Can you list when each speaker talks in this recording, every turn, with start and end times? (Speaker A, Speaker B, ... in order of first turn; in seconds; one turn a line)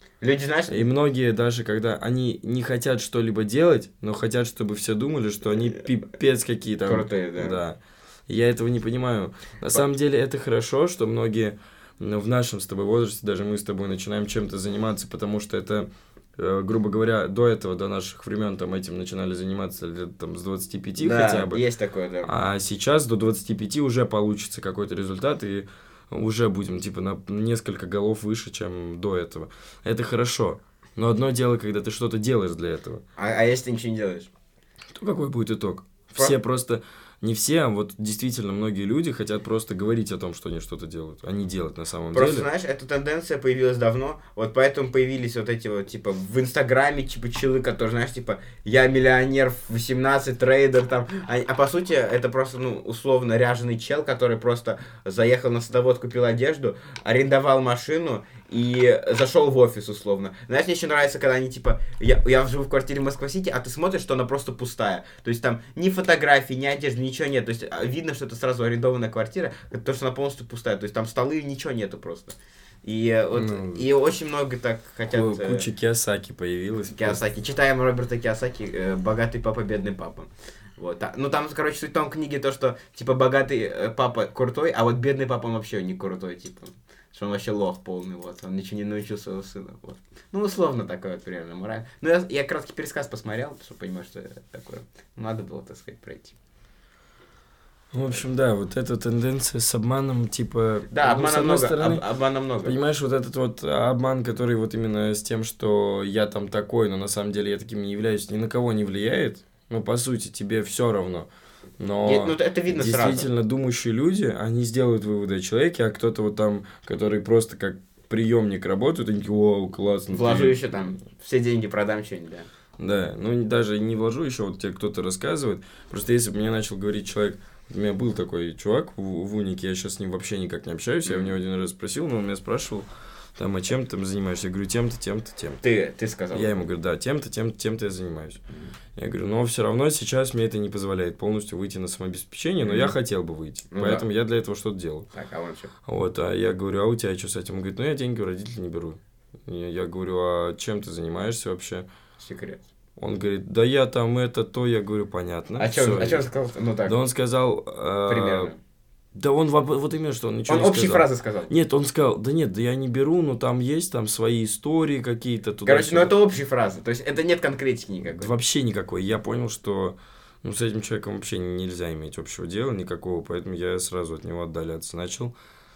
Speaker A: 0.2-0.9
Speaker B: 0.7-21.6
Speaker A: 6.8-7.6
Speaker A: 21.0-22.3
Speaker B: 22.2-33.0
Speaker A: 33.2-34.3
Speaker B: 35.0-42.5
Speaker A: 42.1-75.7
Speaker B: 73.3-73.9
Speaker B: 75.1-77.2
Speaker A: 76.9-96.4
Speaker B: 97.9-102.0
Speaker A: 100.9-102.8
Speaker B: 102.6-120.6
Speaker A: 112.0-113.3
Speaker A: 120.1-122.5
Speaker B: 122.8-135.6
Speaker A: 131.1-131.4
Speaker A: 135.6-136.7
Speaker B: 136.3-138.4
Speaker B: 139.0-145.1
Speaker A: 142.6-142.9
Speaker A: 143.7-144.1
Speaker A: 145.1-145.7
Speaker B: 145.9-151.9
Speaker A: 152.2-152.7
Speaker B: 153.0-156.3
Speaker A: 155.6-157.0
Speaker B: 156.9-158.5
Speaker A: 158.1-158.6
Speaker B: 159.1-166.2
Speaker A: 160.5-161.5
Speaker A: 165.7-168.3
Speaker B: 168.1-175.3